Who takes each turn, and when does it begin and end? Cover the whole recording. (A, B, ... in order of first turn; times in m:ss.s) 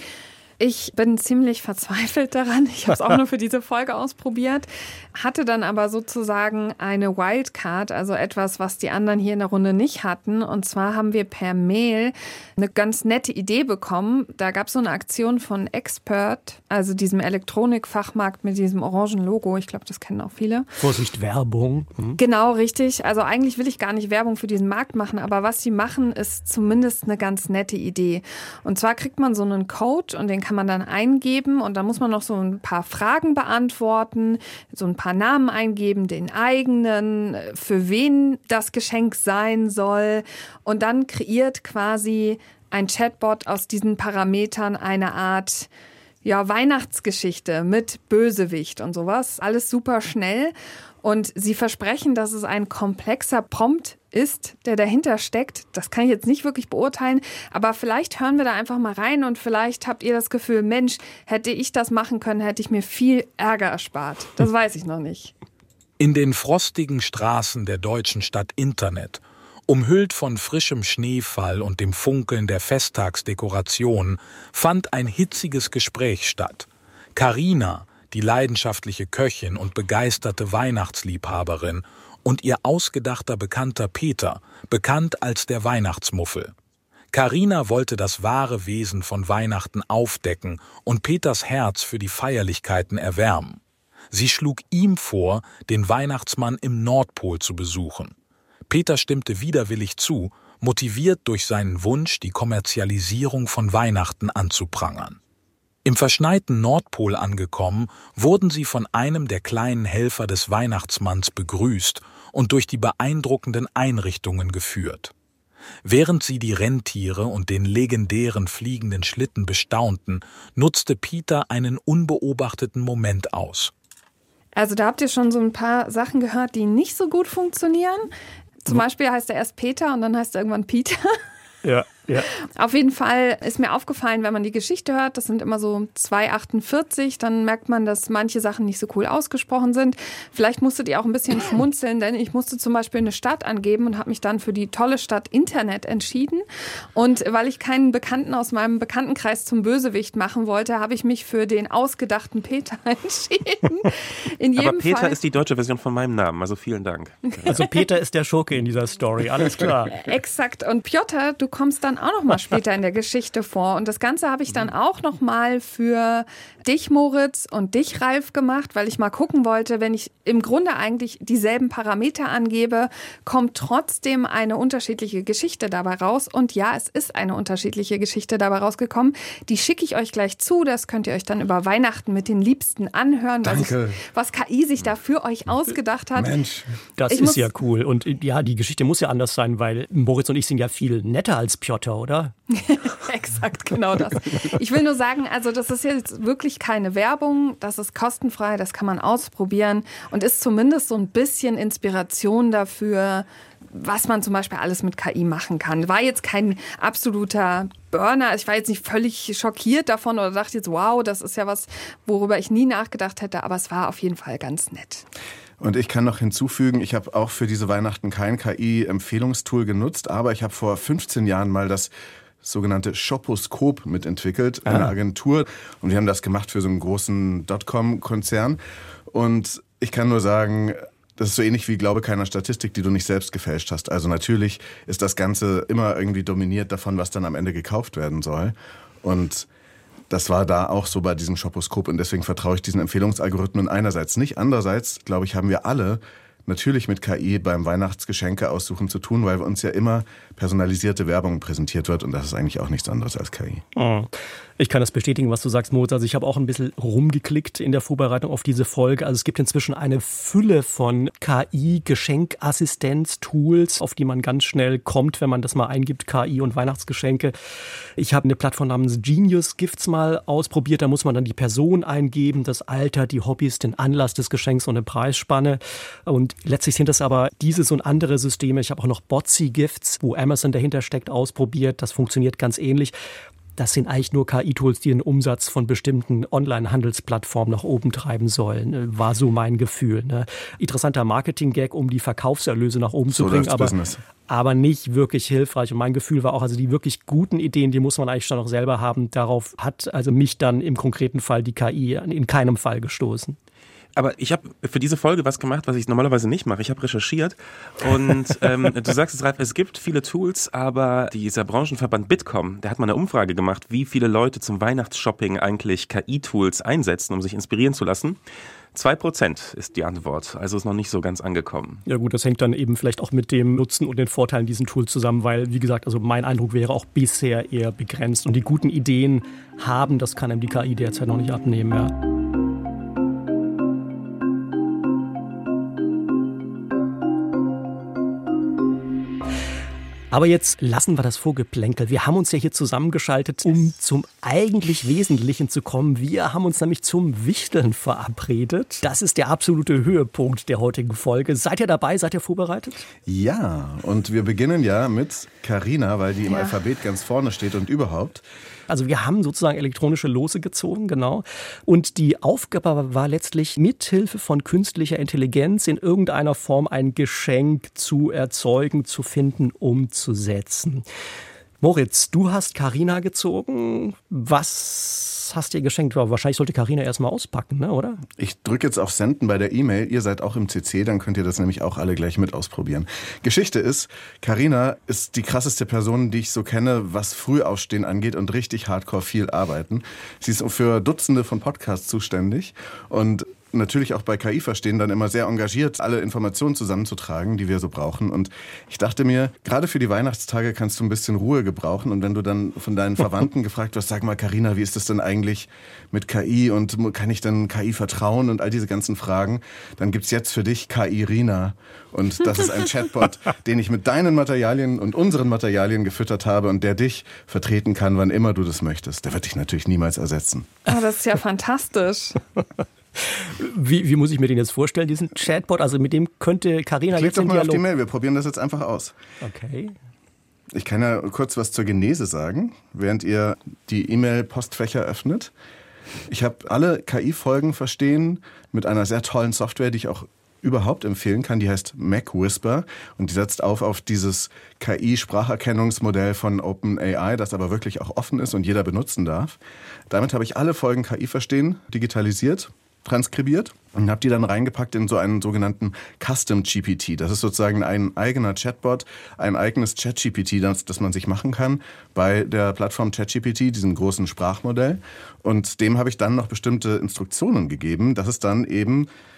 0:00.6-0:20.7 A
0:20.8-0:22.2 B
0:22.2-0:45.7 A
0:46.2-1:05.3 A
1:06.0-1:26.5 C
1:27.1-1:33.6 C
1:34.1-1:38.1 C
1:38.7-1:45.2 C
1:45.8-1:55.1 C
1:55.8-2:03.7 C
2:04.5-2:08.1 A
2:08.6-2:11.2 A
2:11.6-2:12.3 B
2:12.6-2:26.4 A
2:26.9-2:35.2 A
2:34.6-2:37.4 D
2:37.4-2:37.7 A
2:37.5-2:39.9 B
2:40.0-3:06.3 A
3:03.4-3:04.0 E
3:06.2-3:06.7 E
3:07.0-3:12.3 B
3:07.1-3:07.5 A
3:12.5-3:35.0 A
3:35.6-3:41.9 E
3:42.4-3:48.6 E
3:44.6-3:44.9 B
3:49.1-3:59.5 E
4:00.1-4:13.6 E
4:13.7-4:27.3 B
4:28.0-4:43.0 B
4:43.6-4:53.7 B
4:53.1-4:54.0 E
4:54.3-5:03.4 B
5:04.0-5:18.2 D
5:18.7-5:21.8 D
5:21.8-5:31.9 B
5:40.1-5:52.8 B
5:53.0-5:58.2 E
5:56.3-5:56.6 A
5:58.7-6:10.8 B
6:11.6-6:18.0 B
6:18.2-7:00.5 E
7:00.7-7:02.2 A
7:03.0-7:07.6 B
7:06.9-7:09.0 E
7:09.2-7:09.7 B
7:10.5-7:15.3 E
7:16.1-7:48.9 E